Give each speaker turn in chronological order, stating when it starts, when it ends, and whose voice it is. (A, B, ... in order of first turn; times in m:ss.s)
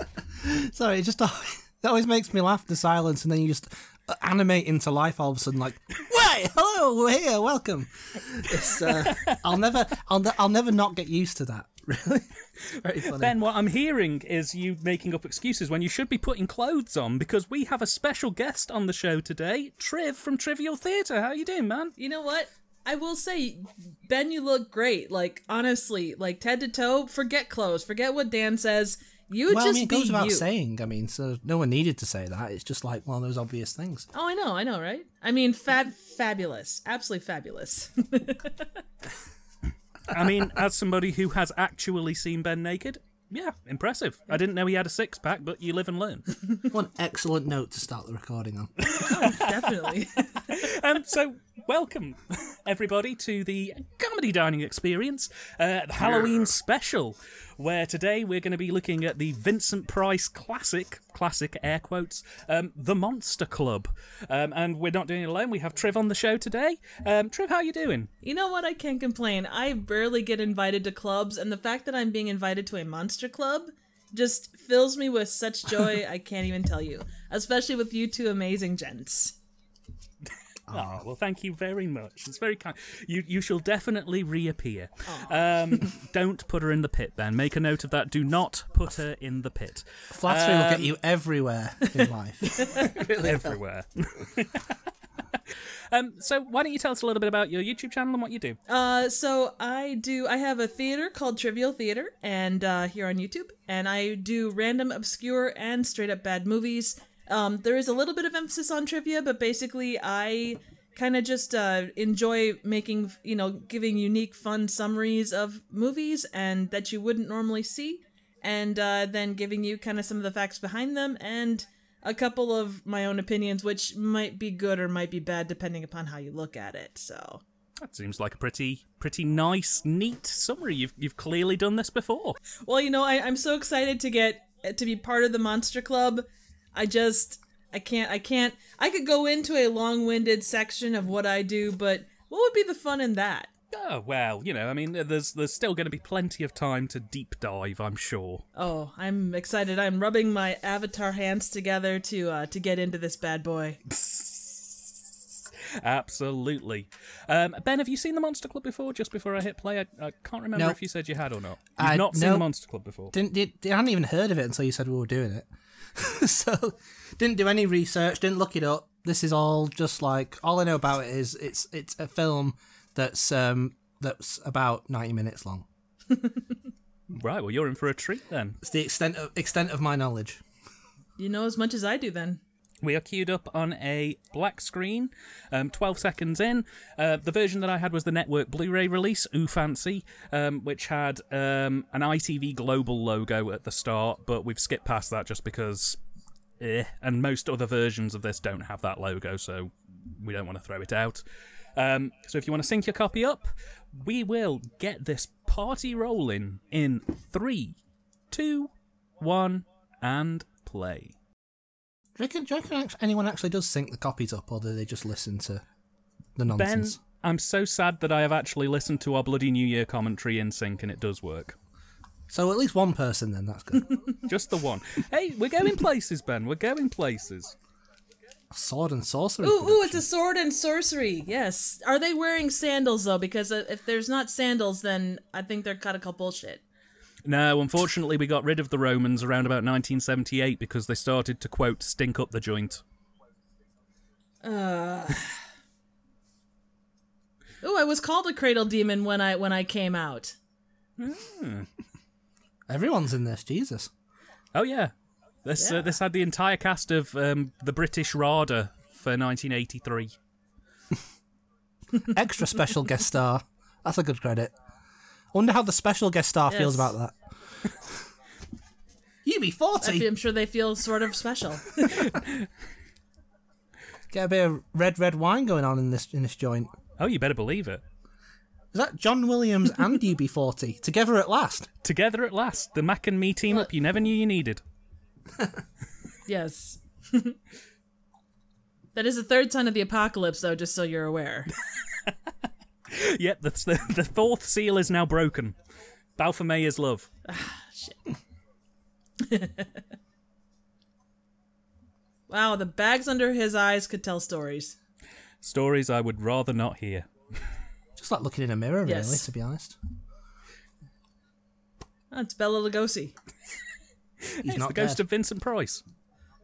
0:00.3-0:13.4 A
0:08.8-0:09.4 B
0:13.0-0:22.0 B
0:22.0-0:30.5 C
0:29.5-0:34.1 A
0:34.1-0:38.8 C
0:40.1-0:46.3 B
0:46.7-0:49.2 A
0:48.8-0:49.7 B
0:48.9-0:50.6 C
0:50.4-1:08.1 B
0:56.0-0:56.4 A
1:08.2-1:19.4 C
1:20.7-1:21.0 A
1:20.7-1:30.9 B
1:30.1-1:33.6 A
1:32.6-1:32.8 C
1:32.9-1:34.8 B
1:35.3-1:38.6 B
1:38.7-2:07.4 C
2:07.8-2:12.4 B
2:12.6-2:23.5 C
2:23.7-2:28.4 B
2:28.6-2:33.8 C
2:33.9-2:43.2 B
2:41.8-2:42.5 A
2:43.1-2:55.7 A
2:56.1-2:56.4 C
2:57.1-2:58.6 B
2:58.6-3:00.4 A
3:01.2-3:02.4 C
3:02.8-3:16.0 B
3:16.6-3:21.2 B
3:21.8-3:27.8 B
3:28.3-3:31.2 B
3:32.2-3:35.6 A
3:36.4-3:37.0 A
3:36.5-3:41.6 B
3:42.3-3:44.0 A
3:44.3-3:47.6 B
3:48.5-3:50.0 A
3:49.4-3:56.6 C
3:57.2-4:02.8 B
4:04.4-4:05.4 C
4:07.6-4:10.4 C
4:11.0-4:11.7 B
4:12.7-4:13.9 A
4:14.5-4:14.9 B
4:15.4-4:20.1 B
4:15.6-4:15.9 C
4:22.0-4:24.5 A
4:25.3-4:27.2 A
4:26.5-4:26.9 C
4:29.2-4:30.1 A
4:29.8-4:32.1 C
4:31.9-4:32.5 B
4:34.1-4:36.7 A
4:37.0-4:37.8 B
4:38.7-4:41.7 A
4:41.8-4:44.6 B
4:46.3-4:47.4 C
4:48.9-4:51.5 C
4:51.7-4:52.2 B
4:52.9-4:55.6 B
4:56.2-4:57.1 B
4:57.3-4:58.0 C
4:59.2-4:59.8 C
5:02.3-5:04.8 C
5:05.4-5:07.1 B
5:08.0-5:09.8 A
5:08.9-5:09.3 C
5:12.1-5:13.1 C
5:14.2-5:15.8 B
5:14.4-5:15.0 A